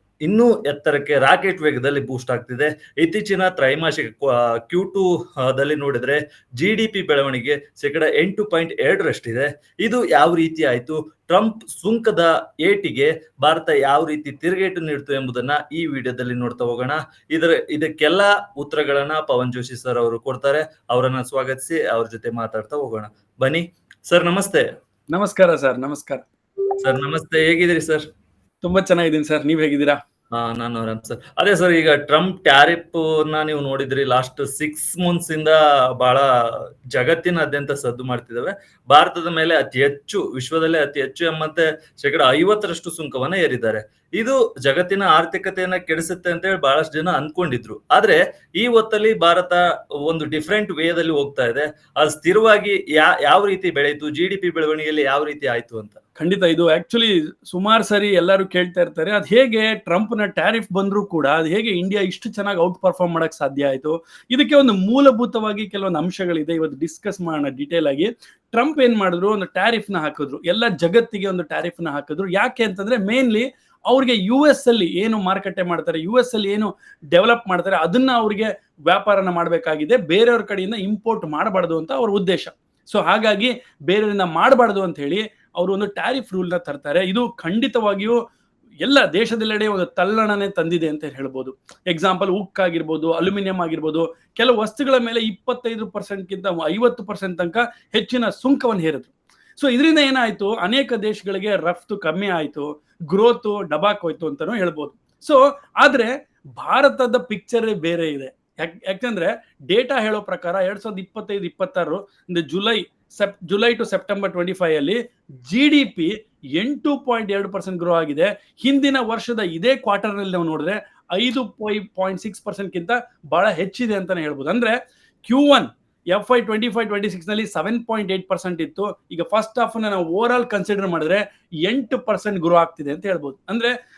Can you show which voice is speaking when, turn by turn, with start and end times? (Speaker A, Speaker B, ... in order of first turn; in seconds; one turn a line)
Speaker A: 0.2-24.7
Speaker B: 25.1-26.2
Speaker A: 26.8-28.1
Speaker B: 28.6-30.0
Speaker A: 30.3-56.0
Speaker B: 56.2-88.2
Speaker B: 88.8-133.7